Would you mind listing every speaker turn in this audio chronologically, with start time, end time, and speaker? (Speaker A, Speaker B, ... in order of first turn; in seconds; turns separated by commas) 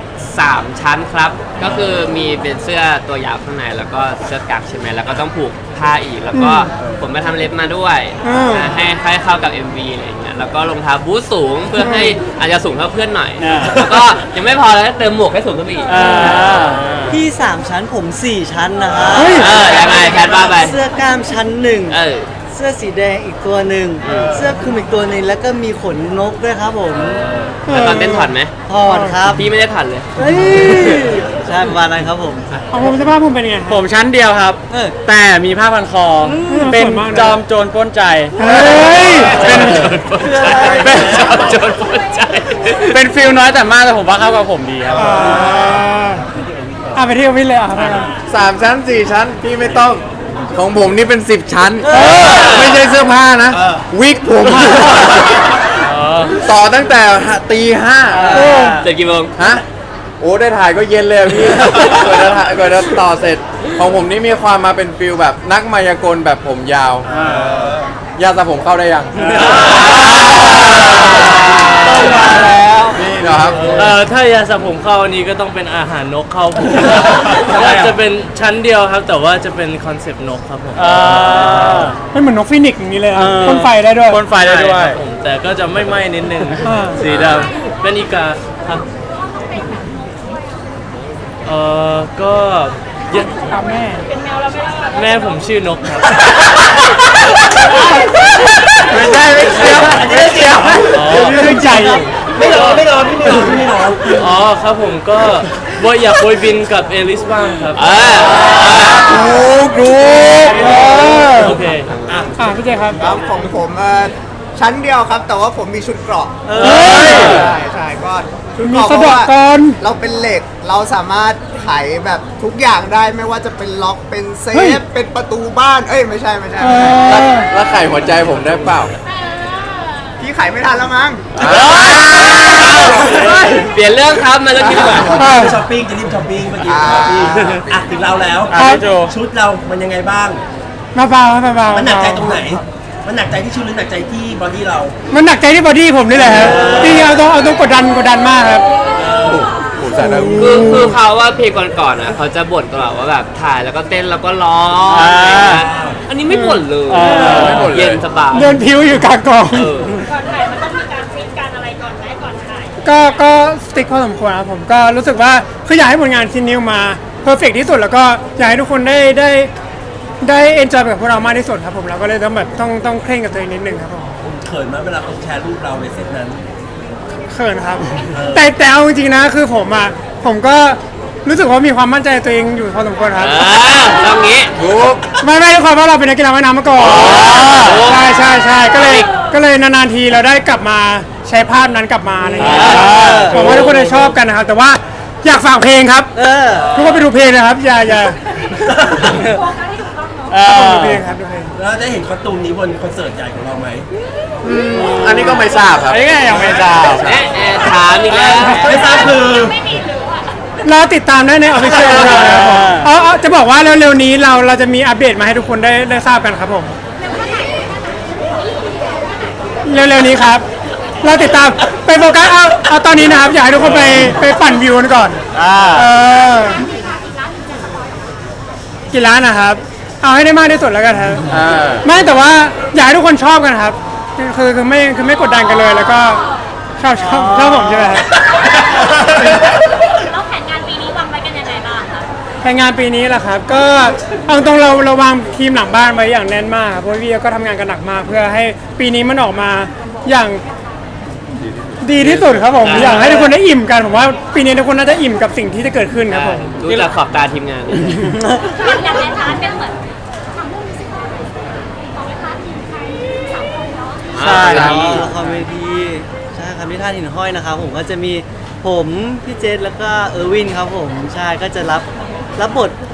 Speaker A: 0.2-16.5, Speaker B: 1.6-2.0, Speaker C: 6.3-6.7, Speaker B: 6.8-7.1, Speaker C: 8.2-8.8, Speaker C: 11.8-12.2, Speaker D: 13.4-13.7, Speaker D: 15.8-16.8, Speaker E: 16.2-17.2, Speaker F: 17.1-22.0, Speaker B: 19.0-20.8, Speaker C: 19.1-19.5, Speaker A: 19.1-20.7, Speaker A: 21.9-22.3, Speaker F: 22.5-27.2, Speaker A: 24.0-24.4, Speaker B: 24.0-25.0, Speaker E: 26.9-27.7, Speaker B: 27.1-27.7, Speaker A: 27.7-28.5, Speaker C: 27.7-29.3, Speaker F: 28.6-29.4, Speaker A: 29.3-30.1, Speaker F: 30.2-32.6, Speaker B: 30.2-32.9, Speaker C: 32.7-33.8, Speaker D: 33.7-38.9, Speaker F: 34.7-35.0, Speaker F: 36.2-36.6, Speaker C: 36.5-37.4, Speaker C: 38.4-39.9, Speaker A: 39.0-43.0, Speaker B: 39.2-39.5, Speaker E: 39.8-40.3, Speaker F: 40.2-41.1, Speaker B: 40.5-41.5, Speaker D: 40.8-41.5, Speaker D: 42.8-45.4, Speaker B: 44.9-47.2, Speaker C: 45.0-46.2, Speaker C: 46.9-48.1, Speaker B: 47.7-48.1, Speaker G: 48.3-55.6, Speaker B: 49.7-50.9, Speaker F: 51.8-52.5, Speaker C: 51.9-52.2, Speaker A: 52.3-52.7, Speaker B: 53.5-53.8, Speaker E: 55.8-56.4, Speaker G: 56.4-58.5, Speaker F: 58.1-58.8, Speaker C: 58.3-58.8, Speaker A: 58.8-59.3, Speaker G: 59.4-59.6, Speaker G: 60.2-67.1, Speaker B: 67.1-68.0, Speaker D: 67.1-67.5, Speaker G: 68.2-69.8, Speaker D: 69.2-69.6, Speaker E: 69.4-70.6, Speaker D: 70.2-71.2, Speaker E: 71.5-72.5, Speaker A: 72.0-72.8, Speaker G: 72.9-73.8, Speaker E: 73.5-82.0, Speaker B: 73.5-73.9, Speaker B: 77.5-78.0, Speaker D: 80.7-82.0, Speaker C: 82.1-84.2, Speaker D: 83.1-85.0, Speaker E: 84.3-88.8, Speaker C: 86.6-87.0, Speaker G: 87.0-87.5, Speaker E: 91.4-93.6, Speaker C: 93.1-94.0, Speaker H: 94.1-94.9, Speaker E: 94.9-96.1, Speaker G: 98.9-100.7, Speaker B: 99.3-101.5, Speaker I: 99.5-100.0, Speaker E: 100.9-102.8, Speaker F: 101.1-102.0, Speaker C: 101.3-102.1, Speaker B: 102.2-104.3, Speaker E: 104.1-108.2, Speaker A: 107.8-109.2, Speaker B: 108.5-109.2, Speaker G: 109.0-111.1, Speaker C: 109.7-111.6, Speaker E: 111.3-111.9, Speaker B: 111.8-113.3, Speaker C: 112.4-113.0, Speaker I: 113.0-127.2, Speaker F: 116.5-117.1, Speaker C: 116.6-117.5, Speaker G: 116.9-117.5, Speaker C: 118.6-119.8, Speaker C: 124.5-124.8, Speaker C: 126.6-127.5, Speaker G: 127.0-128.9, Speaker I: 130.2-133.7, Speaker G: 131.3-132.3, Speaker A: 131.5-135.1, Speaker B: 132.9-133.4, Speaker G: 134.6-135.0, Speaker I: 134.6-135.1, Speaker B: 135.0-140.4, Speaker C: 135.1-135.6, Speaker I: 136.7-137.6, Speaker G: 136.8-137.1, Speaker E: 137.3-137.6, Speaker D: 138.5-139.1, Speaker C: 138.6-138.9, Speaker C: 140.9-142.4, Speaker B: 141.7-144.9, Speaker C: 145.1-148.7, Speaker B: 146.1-147.2, Speaker B: 148.9-149.5, Speaker G: 149.2-150.9, Speaker C: 149.9-150.9, Speaker A: 150.4-158.6, Speaker D: 154.9-155.7, Speaker B: 155.4-156.0, Speaker C: 156.2-157.7, Speaker D: 156.8-157.6, Speaker G: 157.1-158.0, Speaker C: 158.3-160.0, Speaker A: 159.5-160.0, Speaker H: 160.1-163.2, Speaker C: 162.8-169.5, Speaker C: 170.2-174.1, Speaker B: 174.2-176.4, Speaker C: 177.3-184.0, Speaker B: 178.1-178.5, Speaker A: 183.2-184.5, Speaker G: 184.6-185.0, Speaker C: 185.2-196.1, Speaker A: 186.9-189.1, Speaker D: 187.1-187.8, Speaker F: 192.2-193.4, Speaker D: 192.4-193.4, Speaker E: 193.5-194.1, Speaker F: 196.1-196.7, Speaker A: 196.7-197.0, Speaker C: 196.7-198.2, Speaker B: 198.5-199.2, Speaker D: 200.3-201.0, Speaker C: 200.4-201.5, Speaker B: 201.5-203.9, Speaker G: 204.4-207.7, Speaker D: 204.7-207.1, Speaker A: 207.0-208.9, Speaker B: 208.1-209.7, Speaker C: 210.6-216.7, Speaker D: 212.0-212.9, Speaker C: 219.6-220.4, Speaker C: 221.0-226.7, Speaker G: 225.3-225.9, Speaker C: 228.9-231.3, Speaker G: 231.3-231.9, Speaker C: 231.8-236.2, Speaker C: 236.8-238.1, Speaker F: 237.5-237.9, Speaker H: 240.0-242.1, Speaker C: 242.4-250.4, Speaker C: 251.8-256.9, Speaker A: 251.9-253.3, Speaker A: 256.1-258.0, Speaker C: 257.9-258.4, Speaker H: 258.6-259.7, Speaker A: 264.1-265.4, Speaker D: 264.2-264.7, Speaker G: 264.4-265.1, Speaker F: 264.6-271.8, Speaker F: 272.4-272.8